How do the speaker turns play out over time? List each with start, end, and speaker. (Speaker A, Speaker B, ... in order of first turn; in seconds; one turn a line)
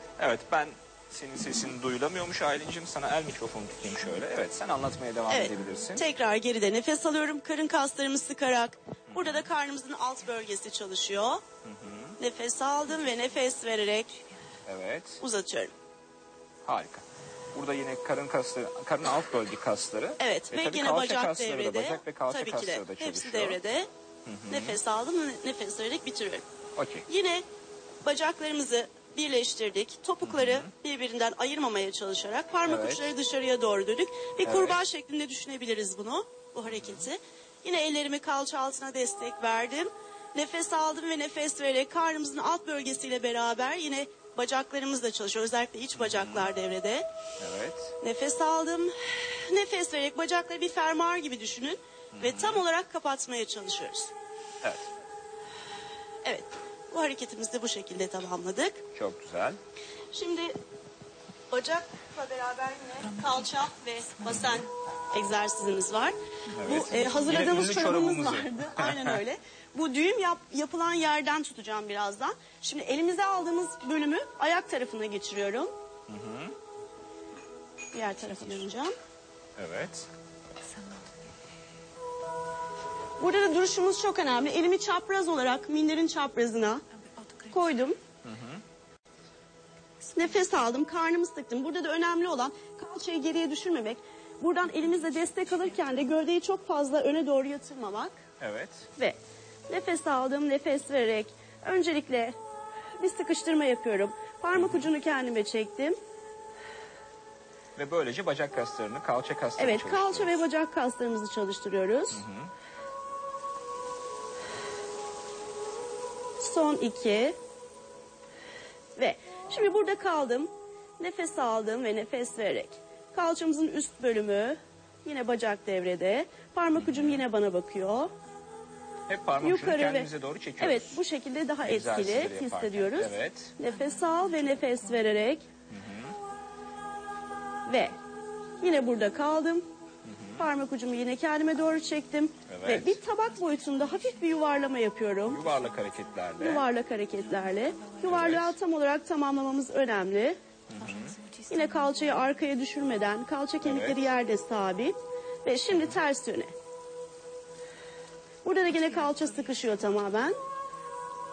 Speaker A: 0.2-6.0
Speaker B: 5.3-11.4
Speaker A: 9.1-9.5
Speaker A: 11.6-12.2
Speaker B: 12.2-14.2
Speaker A: 14.7-15.2
Speaker B: 15.2-15.7
Speaker A: 16.6-23.6
Speaker B: 20.2-23.9
Speaker A: 24.2-24.8
Speaker B: 24.5-26.4
Speaker A: 26.8-27.1
Speaker B: 27.1-27.4
Speaker B: 28.0-47.0
Speaker A: 30.2-30.7
Speaker A: 32.6-33.1
Speaker A: 34.4-34.8
Speaker A: 36.7-37.0
Speaker A: 46.0-46.5
Speaker A: 47.4-48.0
Speaker B: 48.0-54.1
Speaker A: 52.1-52.6
Speaker A: 54.6-54.9
Speaker B: 56.2-58.8
Speaker A: 58.9-59.6
Speaker B: 60.1-60.5
Speaker B: 61.5-75.7
Speaker A: 66.5-69.2
Speaker A: 76.1-76.5
Speaker B: 77.9-78.9
Speaker A: 79.6-80.1
Speaker B: 83.2-86.8
Speaker B: 87.4-88.0
Speaker A: 88.2-88.6
Speaker B: 90.1-98.2
Speaker A: 98.4-98.9
Speaker B: 99.7-102.3
Speaker B: 103.0-106.0
Speaker A: 104.5-104.9
Speaker A: 107.8-110.4
Speaker B: 109.6-112.2
Speaker A: 112.1-112.5
Speaker B: 116.4-117.3
Speaker B: 119.0-128.1
Speaker A: 126.7-127.2
Speaker A: 129.1-131.0
Speaker B: 129.4-135.4
Speaker A: 131.6-133.5
Speaker A: 135.7-136.1
Speaker B: 137.7-137.9
Speaker B: 138.6-139.7
Speaker A: 140.0-140.4
Speaker B: 140.4-145.4
Speaker A: 142.5-143.0
Speaker A: 145.3-146.6
Speaker B: 146.4-150.4
Speaker A: 148.0-148.5
Speaker A: 150.7-151.2
Speaker B: 151.5-156.5
Speaker A: 153.6-154.0
Speaker B: 158.4-160.3